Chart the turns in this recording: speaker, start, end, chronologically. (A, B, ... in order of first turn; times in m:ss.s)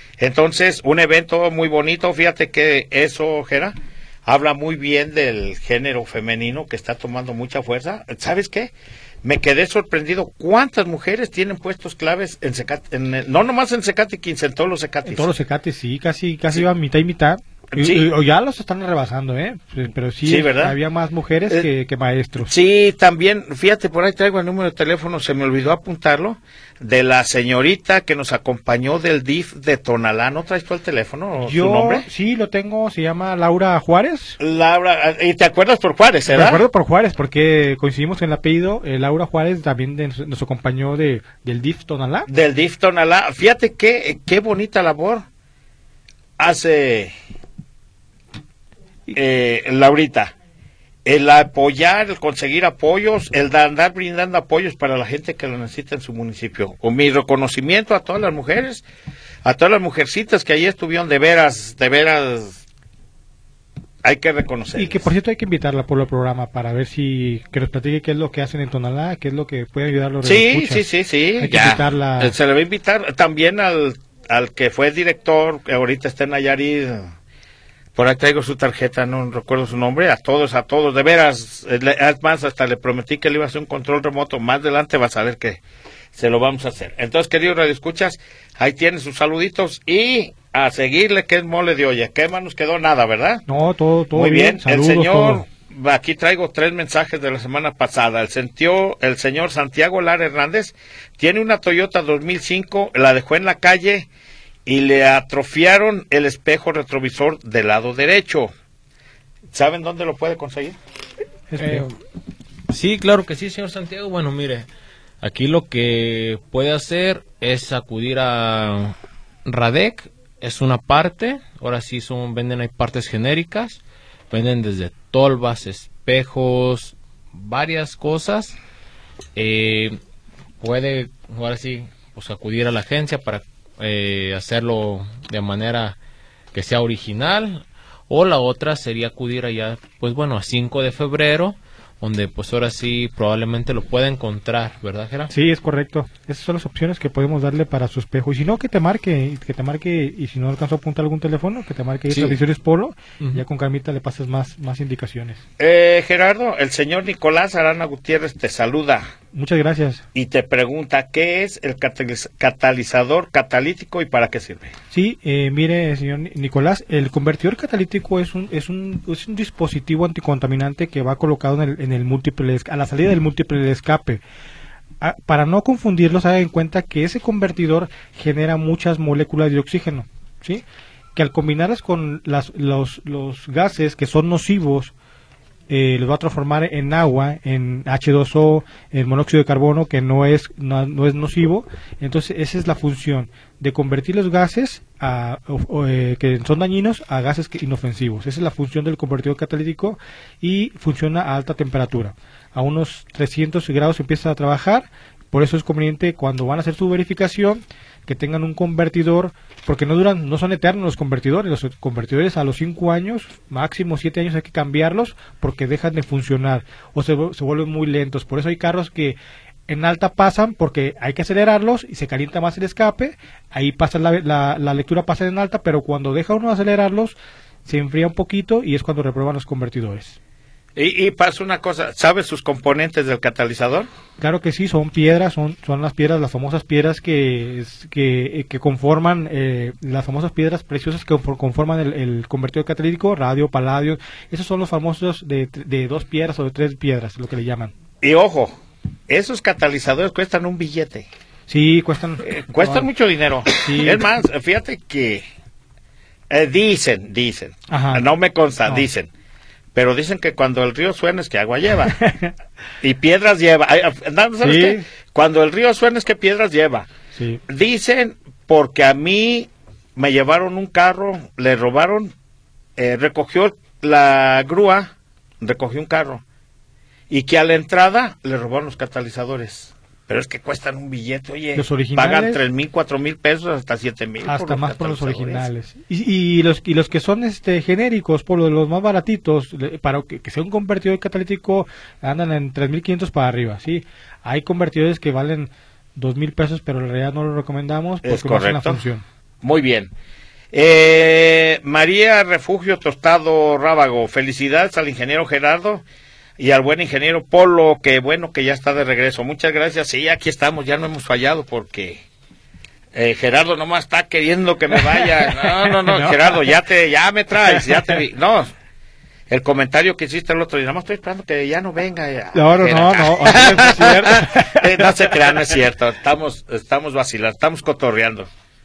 0:00.2-0:08.7 A
0:09.2-0:15.3 A
0:15.0-0:22.5 B
0:17.7-0:18.1 A
0:20.2-0:20.8 A
0:22.5-0:32.1 A
0:31.4-0:34.4 B
0:34.4-0:36.6 A
0:36.3-0:42.3 B
0:42.3-0:45.2 A
0:46.4-0:47.1 A
0:49.1-0:50.4 A
0:51.0-0:58.8 A
0:59.4-1:02.6 A
1:04.0-1:05.0 A
1:04.8-1:10.8 B
1:10.2-1:17.1 A
1:11.4-1:12.4 B
1:18.0-1:25.6 A
1:26.1-1:33.4 A
1:33.5-1:35.4 B
1:34.2-1:44.1 A
1:44.7-1:48.5 A
1:49.5-1:50.8 A
1:51.5-1:51.9 B
1:51.6-1:51.9 C
1:52.7-1:54.7 C
1:55.2-1:59.0 C
1:59.5-2:08.6 C
2:09.4-2:10.0 C
2:10.6-2:16.0 C
2:16.5-2:25.3 C
2:25.3-2:35.4 B
2:32.1-2:32.4 C
2:35.6-2:39.1 A
2:39.3-2:40.0 B
2:40.2-2:44.7 A
2:44.9-2:54.2 B
2:55.0-3:00.6 B
3:01.2-3:04.9 B
3:05.7-3:39.2 B
3:39.7-3:50.2 B
3:50.8-3:53.9 A
3:54.2-4:07.7 B
4:08.0-4:08.5 A
4:09.1-4:11.1 A
4:11.5-4:12.9 B
4:12.2-4:15.2 A
4:13.5-4:14.1 B
4:16.3-4:19.1 A
4:17.7-4:18.1 B
4:19.7-4:22.0 A
4:21.9-4:22.3 B
4:22.8-4:26.9 A
4:24.4-4:24.9 B
4:27.1-4:27.4 B
4:27.5-4:32.1 A
4:32.8-4:36.2 A
4:37.1-4:45.5 A
4:41.6-4:42.4 B
4:44.2-4:59.0 B
4:58.0-4:58.8 A
4:59.4-4:59.9 A
5:00.5-5:05.8 A
5:06.4-5:12.0 A
5:12.9-5:18.5 A
5:15.6-5:16.4 B
5:19.3-5:28.3 A
5:22.3-5:25.3 B